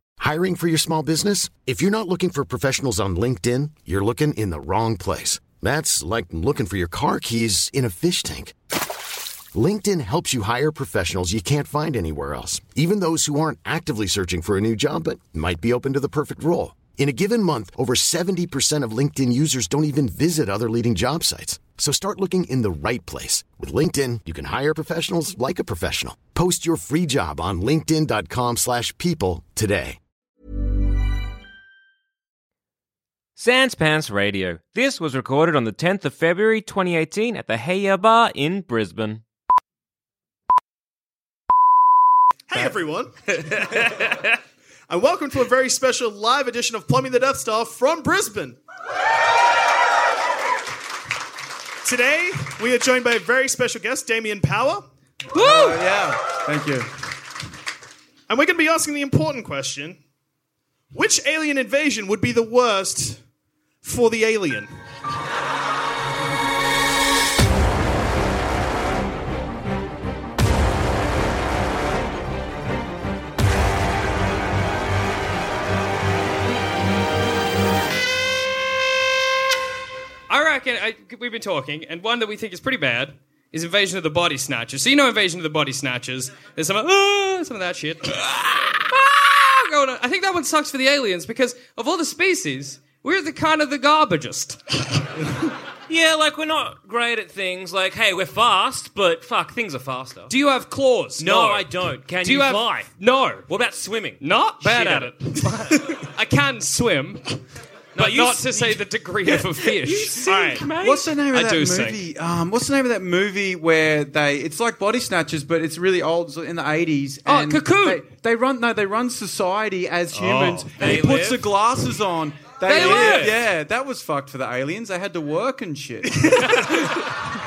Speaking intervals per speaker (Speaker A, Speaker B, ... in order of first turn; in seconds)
Speaker A: 0.2-8.5, 9.5-30.0
Speaker B: 33.4-39.2, 43.4-44.3, 95.9-100.3, 101.2-102.9, 103.5-105.4, 108.0-111.1, 120.4-121.5, 122.7-123.4
Speaker C: 42.5-43.1, 44.9-48.6, 51.8-54.9, 58.3-60.0, 60.9-63.2, 63.8-64.7, 110.3-110.7
Speaker D: 55.3-55.9, 80.3-94.6, 100.3-103.5, 104.2-107.4, 108.0-110.4, 111.3-112.0, 117.3-118.1, 122.7-123.4
Speaker E: 55.3-56.9, 110.4-127.2